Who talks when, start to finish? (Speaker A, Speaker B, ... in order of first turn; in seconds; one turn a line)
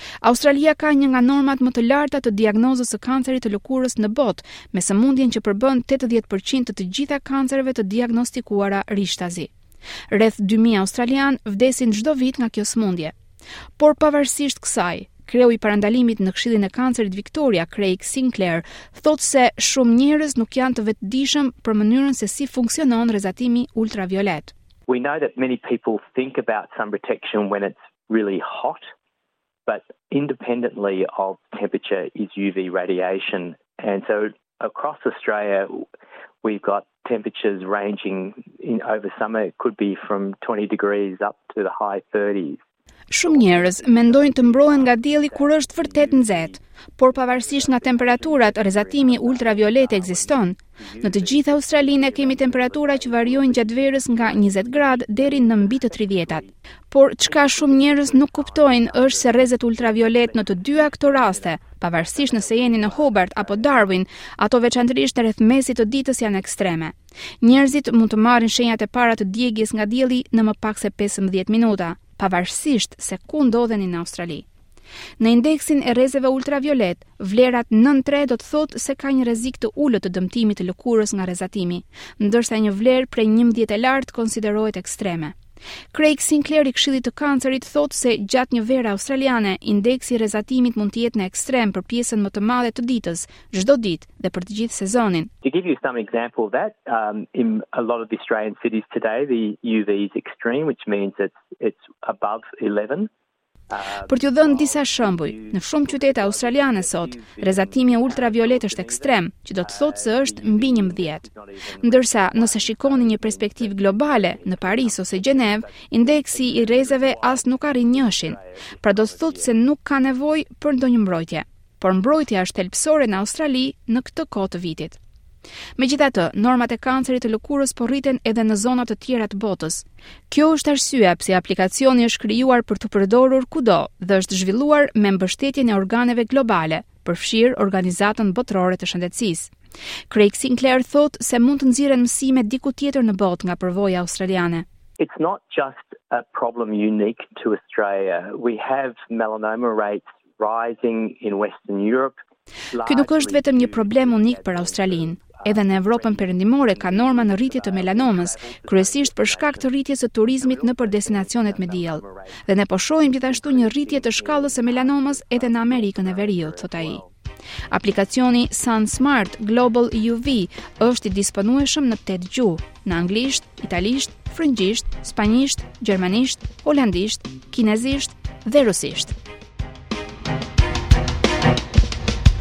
Speaker A: 0.2-9.5
Speaker A: 10.1-13.2
Speaker A: 13.8-24.5
Speaker B: 24.9-28.9
Speaker B: 29.7-35.9
Speaker B: 36.4-42.6
Speaker A: 43.1-74.5
Speaker B: 43.2-56.5
Speaker B: 57.2-63.9
Speaker A: 75.2-85.3
Speaker A: 85.9-95.3
Speaker B: 95.4-103.1
Speaker B: 103.7-119.5
Speaker A: 104.1-111.2
Speaker A: 111.8-125.0
Speaker A: 125.8-139.5
Speaker A: 140.1-144.7
Speaker B: 145.0-152.2
Speaker B: 152.7-159.7
Speaker A: 152.8-167.0
Speaker B: 160.4-162.4
Speaker B: 163.2-167.1
Speaker A: 167.7-179.1